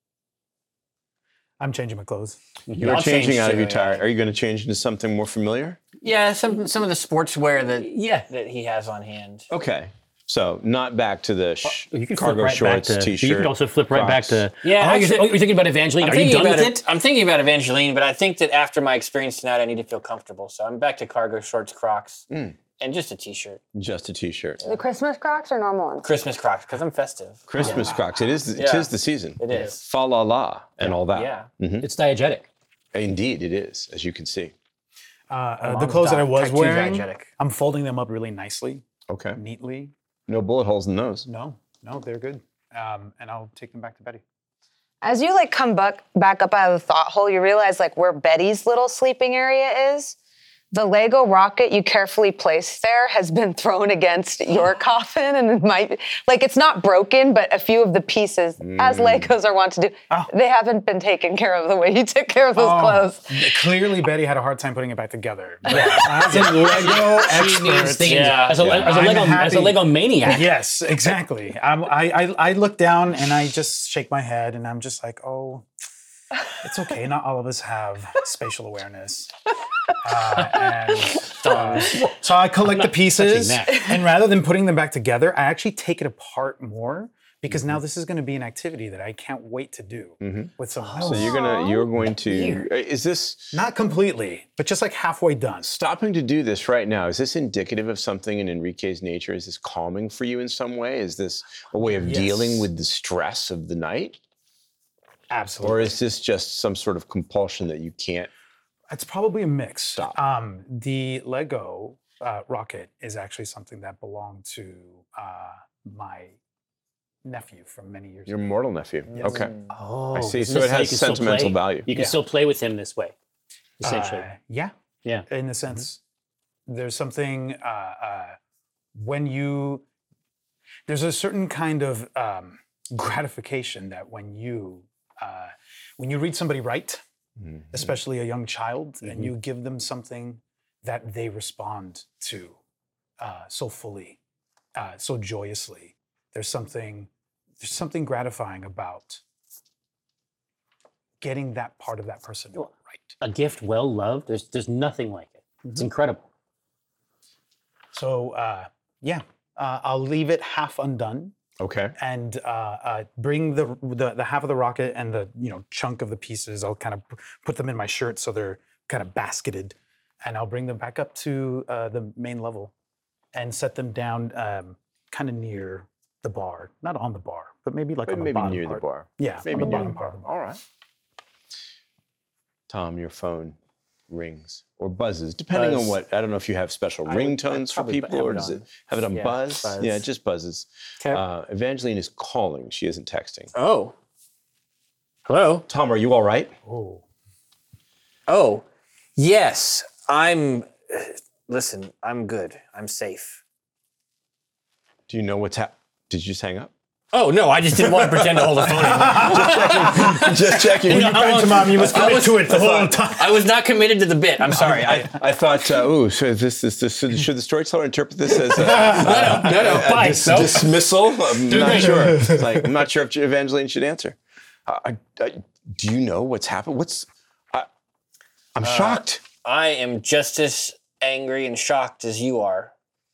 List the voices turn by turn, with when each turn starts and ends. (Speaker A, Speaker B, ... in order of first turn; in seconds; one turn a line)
Speaker A: 1.6-2.4
Speaker B: 2.7-4.0
Speaker C: 2.8-5.8
Speaker D: 6.0-9.5
Speaker B: 7.8-8.3
Speaker C: 9.5-14.4
Speaker B: 11.7-16.9
Speaker D: 14.6-15.3
Speaker D: 16.0-22.3
Speaker C: 22.3-22.6
Speaker D: 22.8-23.6
Speaker C: 23.7-24.6
Speaker E: 24.6-26.1
Speaker D: 26.0-27.8
Speaker C: 27.5-31.9
Speaker A: 27.6-28.1
Speaker D: 28.6-29.8
Speaker D: 31.0-31.5
Speaker B: 31.8-32.5
Speaker C: 32.9-34.5
Speaker A: 35.3-39.9
Speaker D: 35.6-37.3
Speaker C: 39.1-39.4
Speaker C: 40.3-41.3
Speaker A: 41.3-44.2
Speaker E: 45.0-50.2
Speaker E: 50.7-63.6
Speaker C: 58.6-59.4
Speaker A: 62.6-75.7
Speaker B: 65.7-70.6
Speaker D: 68.0-68.6
Speaker C: 68.6-69.2
Speaker A: 76.6-79.3
Speaker A: 80.0-91.4
Speaker B: 81.4-83.9
Speaker D: 81.5-82.0
Speaker C: 87.5-87.8
Speaker C: 90.2-93.5
Speaker B: 90.8-91.4
Speaker E: 91.1-91.9
Speaker B: 92.2-92.7
Speaker A: 93.5-95.7
Speaker C: 95.6-104.2
Speaker A: 102.0-102.7
Speaker A: 105.3-106.0
Speaker C: 105.6-108.3
Speaker A: 108.9-116.4
Speaker A: 117.2-118.4
Speaker C: 118.3-119.5
Speaker D: 119.1-119.8
Speaker A: 119.1-119.5
Speaker B: 119.7-123.1
Speaker C: 120.1-121.9
Speaker A: 121.9-122.2
Speaker B: 123.8-124.3
Speaker A: 123.8-124.7
Speaker A: 125.3-126.0
Speaker A: 126.7-128.4
Speaker A: 128.9-129.8
Speaker A: 130.9-137.0
Speaker C: 137.4-137.9
Speaker A: 137.7-142.6
Speaker A: 143.2-144.2
Speaker A: 144.8-147.1
Speaker A: 147.6-149.2
Speaker A: 151.2-153.2
Speaker B: 153.2-156.2
Speaker A: 157.9-161.3
Speaker C: 161.6-161.9
Speaker A: 162.0-172.7
Speaker A: 173.3-180.3
Speaker C: 178.1-180.6
Speaker C: 182.7-183.6
Speaker C: 184.1-193.5
Speaker D: 185.5-185.9
Speaker D: 187.1-190.0
Speaker D: 193.5-193.9
Speaker D: 195.3-195.7
Speaker C: 195.7-196.5
Speaker A: 196.7-197.0
Speaker D: 198.3-198.7
Speaker D: 199.2-203.4
Speaker C: 205.1-206.7
Speaker D: 207.1-210.3
Speaker C: 208.1-211.4
Speaker A: 208.8-213.4
Speaker B: 210.9-212.1
Speaker D: 211.1-215.1
Speaker C: 212.5-212.8
Speaker C: 214.5-227.7
Speaker A: 214.6-215.1
Speaker A: 218.7-219.3
Speaker D: 218.8-219.9
Speaker B: 219.0-220.8
Speaker B: 221.5-222.1
Speaker A: 221.5-222.6
Speaker C: 228.6-229.2
Speaker D: 228.6-232.7